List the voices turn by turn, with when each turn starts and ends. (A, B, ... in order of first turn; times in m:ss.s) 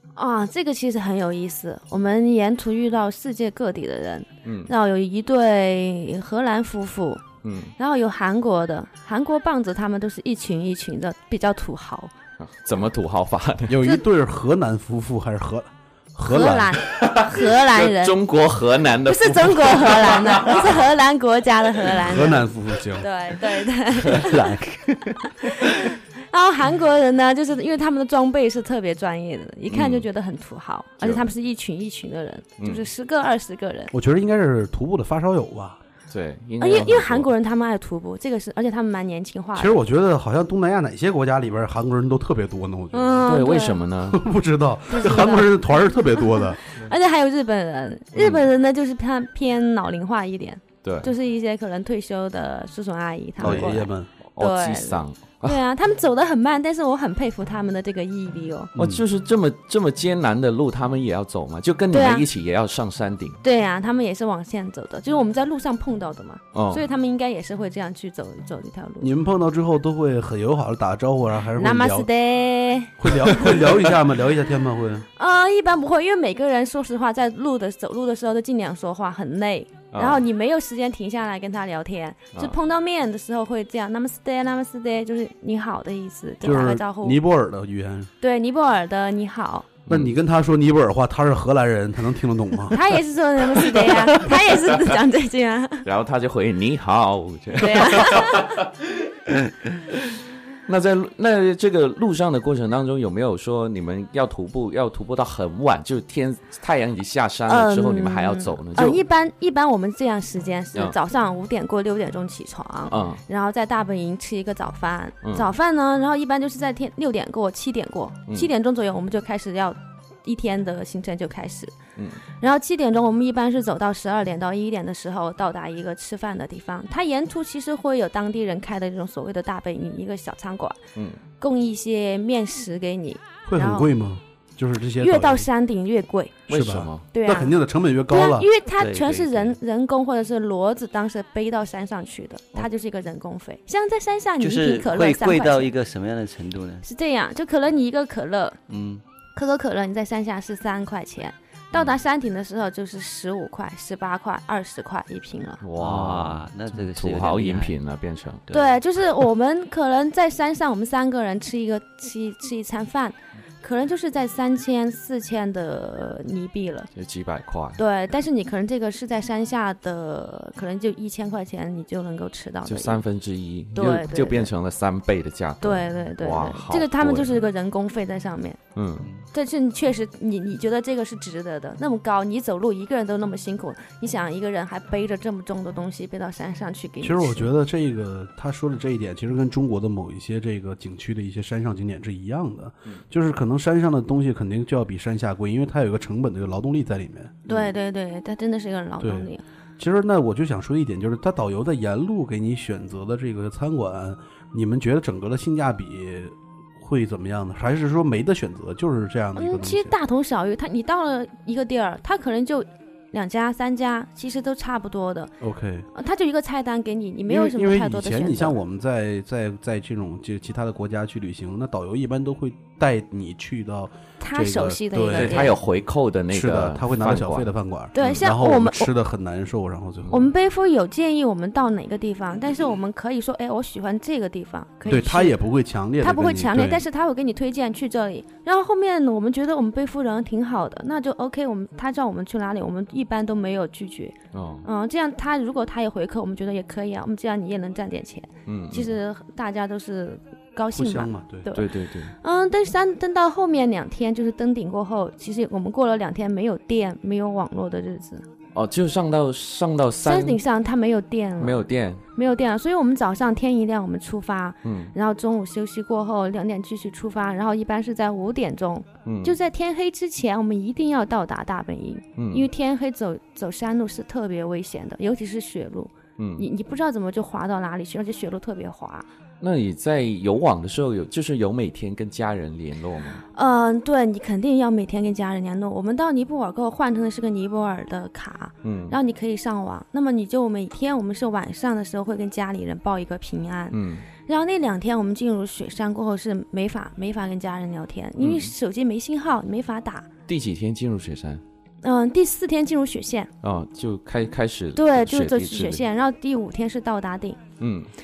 0:00.2-0:07.2 A
0:04.4-0:04.7 B
0:07.4-0:07.7 B
0:07.8-0:12.1 A
0:12.4-0:13.8 B
0:13.7-0:16.8 C
0:16.2-0:18.2 A
0:16.9-0:20.8 B
0:19.0-0:22.4 A
0:22.0-0:23.1 C
0:23.0-0:24.6 A
0:24.1-0:25.2 D
0:24.3-0:24.6 C
0:25.2-0:33.9 A
0:29.7-0:30.1 B
0:31.0-0:31.3 B
0:32.6-0:32.8 B
0:33.9-0:35.8 C
0:36.1-0:37.3 B
0:36.6-0:39.8 A
0:39.6-0:43.3 C
0:42.9-0:43.8 A
0:43.3-0:44.2 B
0:44.1-0:46.6 C
0:44.9-0:58.7 A
0:48.2-0:48.5 B
0:50.8-0:51.1 B
0:53.4-0:54.1 C
0:53.4-0:53.8 B
0:54.3-0:55.6 B
0:58.7-0:59.0 C
0:58.8-1:03.4 B
1:01.9-1:02.3 A
1:03.4-1:09.1 A
1:06.5-1:06.8 B
1:09.0-1:12.1 C
1:11.6-1:13.6 A
1:13.0-1:15.1 C
1:15.2-1:27.2 A
1:19.9-1:20.2 B
1:26.4-1:28.1 C
1:28.2-1:29.7 A
1:29.9-1:30.1 B
1:29.9-1:32.8 C
1:32.7-1:35.9 A
1:35.8-1:38.9 B
1:37.5-1:38.6 A
1:40.7-1:49.0 B
1:47.5-2:01.8 A
1:52.9-1:53.2 B
2:02.4-2:10.8 A
2:11.0-2:11.2 B
2:11.4-2:13.9 A
2:13.5-2:15.5 C
2:15.0-2:16.4 A
2:16.5-2:17.0 B
2:16.5-2:18.5 C
2:17.1-2:17.5 A
2:18.1-2:25.7 A
2:18.8-2:19.6 D
2:24.4-2:26.9 D
2:26.8-2:28.6 A
2:28.7-2:29.0 D
2:29.4-2:35.6 A
2:35.6-2:38.5 B
2:35.8-2:37.8 D
2:38.5-2:38.7 D
2:38.5-2:46.9 A
2:47.0-2:47.8 B
2:47.8-2:53.0 A
2:52.6-2:57.4 B
2:53.8-2:54.5 A
2:55.6-2:58.6 A
2:58.8-2:59.1 B
2:59.3-3:07.5 A
3:07.0-3:17.5 C
3:17.5-3:19.4 A
3:19.0-3:29.9 C
3:29.4-3:35.3 A
3:35.4-3:35.9 C
3:36.0-3:38.6 A
3:37.3-3:45.6 C
3:44.2-3:45.6 A
3:45.1-3:47.5 B
3:46.3-3:50.3 C
3:47.9-3:48.9 A
3:50.1-3:55.4 A
3:54.9-3:56.8 C
3:56.0-4:11.7 A
4:04.3-4:04.6 B
4:08.5-4:09.0 B
4:10.7-4:11.5 C
4:11.5-4:12.1 B
4:12.2-4:18.2 A
4:18.5-4:20.4 B
4:20.0-4:39.1 A
4:21.4-4:22.0 B
4:24.6-4:24.9 B
4:29.0-4:29.4 B
4:32.2-4:32.5 B
4:36.2-4:36.4 B
4:39.4-4:43.2 B
4:43.3-5:00.1 A
4:48.6-4:49.0 B
4:53.7-4:54.1 B
4:58.2-4:58.5 B
5:00.3-5:01.4 B
5:01.8-5:03.3 A
5:03.4-5:05.8 B
5:04.8-5:07.4 A
5:07.6-5:07.9 B